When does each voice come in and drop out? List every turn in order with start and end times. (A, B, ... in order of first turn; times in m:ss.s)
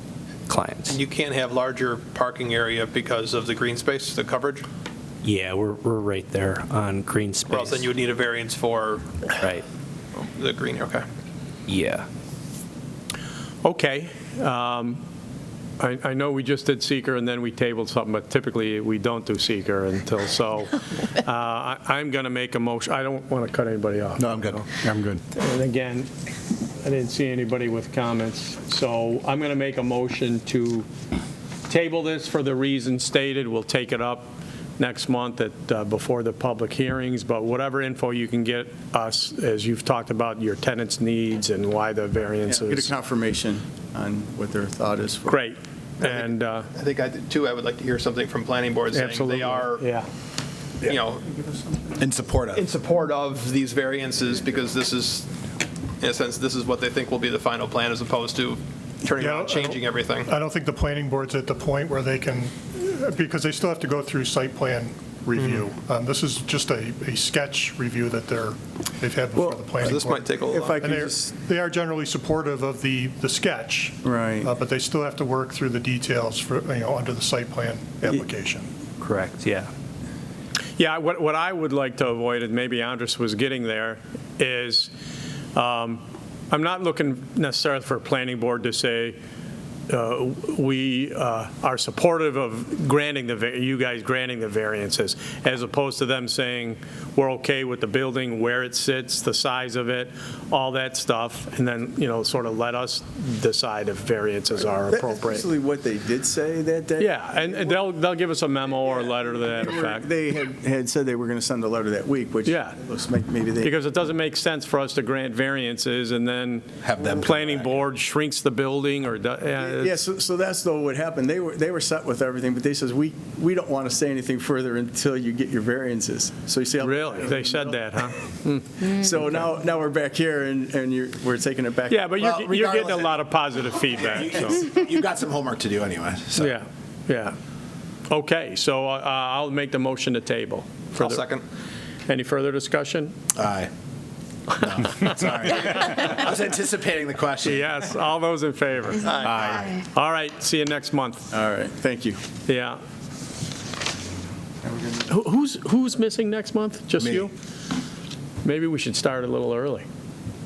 0:00.5-0:01.0 A
0:01.0-0:04.6 B
0:05.2-0:07.9 A
0:07.6-0:09.0 B
0:09.4-0:09.6 A
0:10.2-0:11.0 B
0:11.7-0:12.1 A
0:13.6-0:15.0 C
0:15.8-0:24.6 C
0:24.2-0:25.2 D
0:25.3-0:26.1 C
0:26.8-0:30.9 C
0:31.7-0:42.9 C
0:42.5-0:45.4 E
0:45.3-0:46.7 C
0:46.1-0:48.3 B
0:48.8-0:49.8 B
0:48.9-0:50.0 C
0:52.0-0:52.6 D
0:52.6-0:55.2 B
0:56.0-0:58.3 B
0:59.0-0:59.5 B
0:59.2-1:18.6 F
1:09.3-1:11.3 E
1:09.8-1:10.6 B
1:14.0-1:14.5 E
1:19.0-1:19.7 A
1:20.8-1:24.9 C
1:25.5-1:29.2 C
1:29.9-1:45.4 C
1:44.6-1:47.8 E
1:47.0-1:50.1 C
1:48.8-1:53.7 E
1:52.4-1:52.8 C
1:53.6-1:59.9 C
1:56.8-1:57.7 D
1:59.6-2:07.8 E
2:06.8-2:08.9 C
2:08.8-2:12.4 E
2:11.9-2:14.7 C
2:12.2-2:13.1 D
2:13.9-2:16.5 D
2:16.4-2:17.3 C
2:18.1-2:21.4 C
2:21.0-2:21.4 B
2:22.1-2:23.1 C
2:23.3-2:23.7 D
2:24.5-2:27.7 D
2:27.4-2:31.3 C
2:29.2-2:29.7 D
2:31.3-2:32.2 E
2:32.5-2:32.8 C
2:34.6-2:35.1 E
2:35.1-2:37.3 C
2:37.0-2:37.3 D
2:38.4-2:39.8 C